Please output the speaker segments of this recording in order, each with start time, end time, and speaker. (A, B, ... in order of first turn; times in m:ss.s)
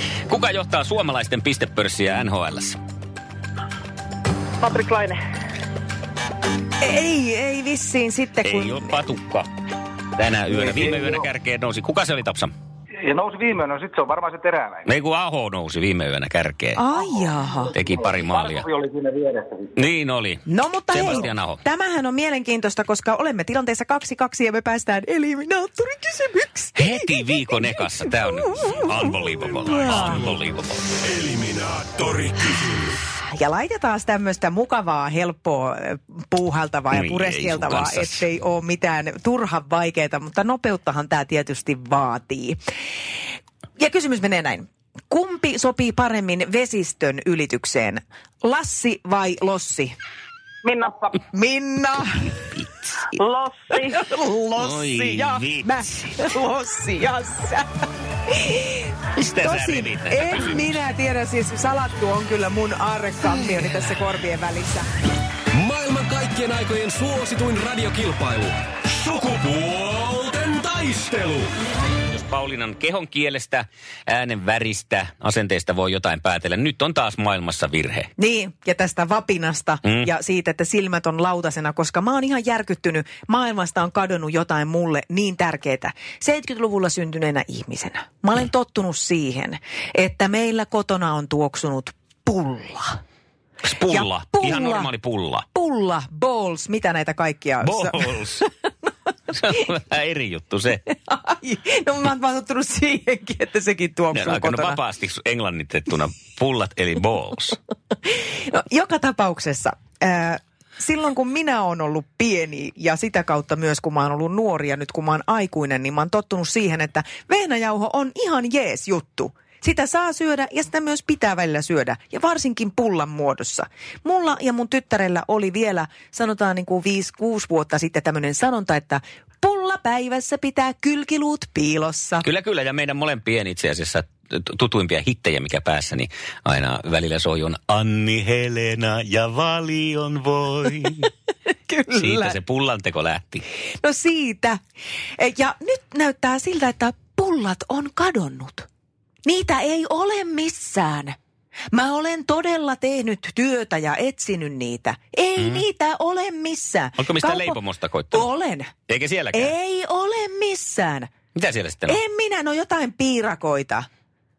0:00.3-0:02.8 A
0:04.6-0:05.2 B
0:06.8-0:09.0 C
0:08.4-0:09.5 A
0:10.2-0:12.5 A
0:10.5-0:11.2 D
0:13.0-0:14.8 D
0:14.9-0:16.8 A
0:16.8-0:17.7 C
0:17.7-0:18.7 A
0:18.0-0:19.7 D
0:19.8-0:21.6 A
0:20.5-0:29.1 C
0:26.8-0:30.8 A
0:29.6-0:30.3 C
0:31.0-0:33.0 E
0:33.3-0:42.6 C
0:36.9-0:38.2 A
0:43.8-0:50.0 C
0:50.6-0:51.2 B
0:51.3-0:52.4 C
0:52.6-0:52.9 A
0:53.1-0:54.0 B
0:53.9-0:57.7 C
0:54.6-0:56.1 A
0:58.3-1:04.9 C
0:59.2-1:00.8 A
1:05.5-1:11.5 E
1:12.1-1:18.1 A
1:18.2-1:33.0 C
1:33.6-1:35.4 A
1:33.9-1:34.9 C
1:35.5-1:38.5 C
1:37.6-1:38.4 A
1:39.3-1:40.8 A
1:40.9-1:44.8 C
1:44.1-1:47.6 A
1:48.3-2:12.3 C
2:12.2-2:21.1 A
2:21.7-2:22.4 C
2:22.0-2:23.4 A
2:23.8-2:24.6 C
2:25.2-2:28.7 C
2:29.2-2:31.2 C
2:31.7-2:37.6 C
2:35.4-2:35.6 A
2:37.0-2:38.3 A
2:38.1-2:38.7 C
2:38.9-2:39.5 A
2:39.3-2:41.1 C
2:41.4-2:42.0 A
2:41.9-2:43.9 C